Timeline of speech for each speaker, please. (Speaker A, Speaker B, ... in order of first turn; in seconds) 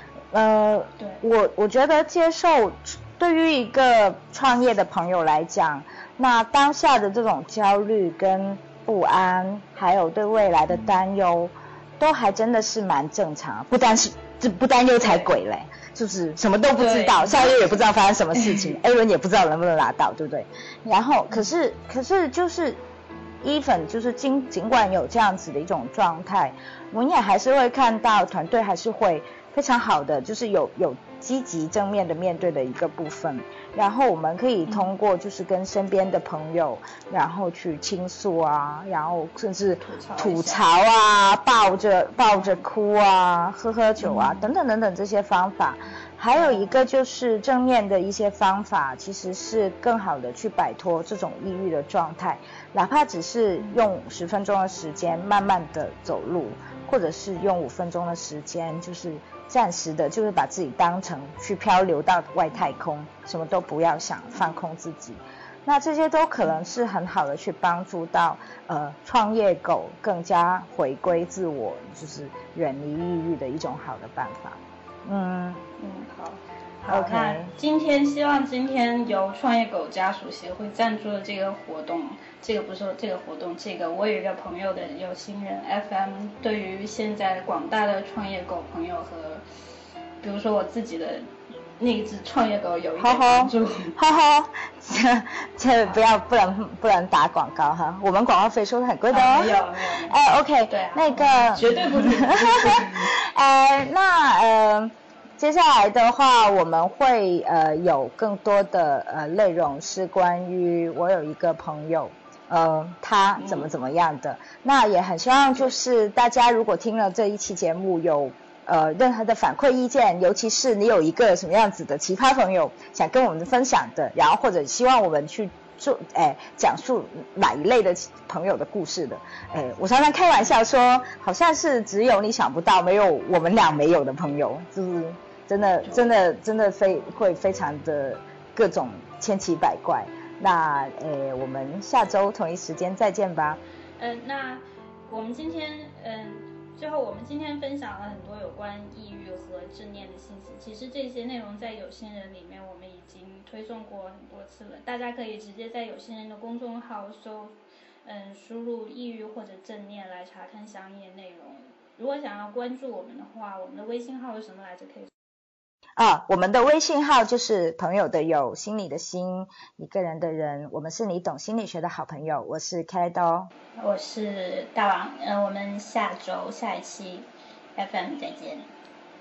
Speaker A: 0.3-22.8, 23.4-75.6, 76.9-77.5, 93.0-143.6, 166.0-173.5
Speaker B: 15.0-15.3, 16.8-17.7, 18.4-18.7, 39.8-40.6, 42.3-42.6, 44.0-44.5, 46.3-46.8, 75.8-89.4, 90.2-91.3, 91.8-94.0, 99.1-100.2, 100.7-103.2, 113.4-113.7, 144.0-165.1, 173.8-178.7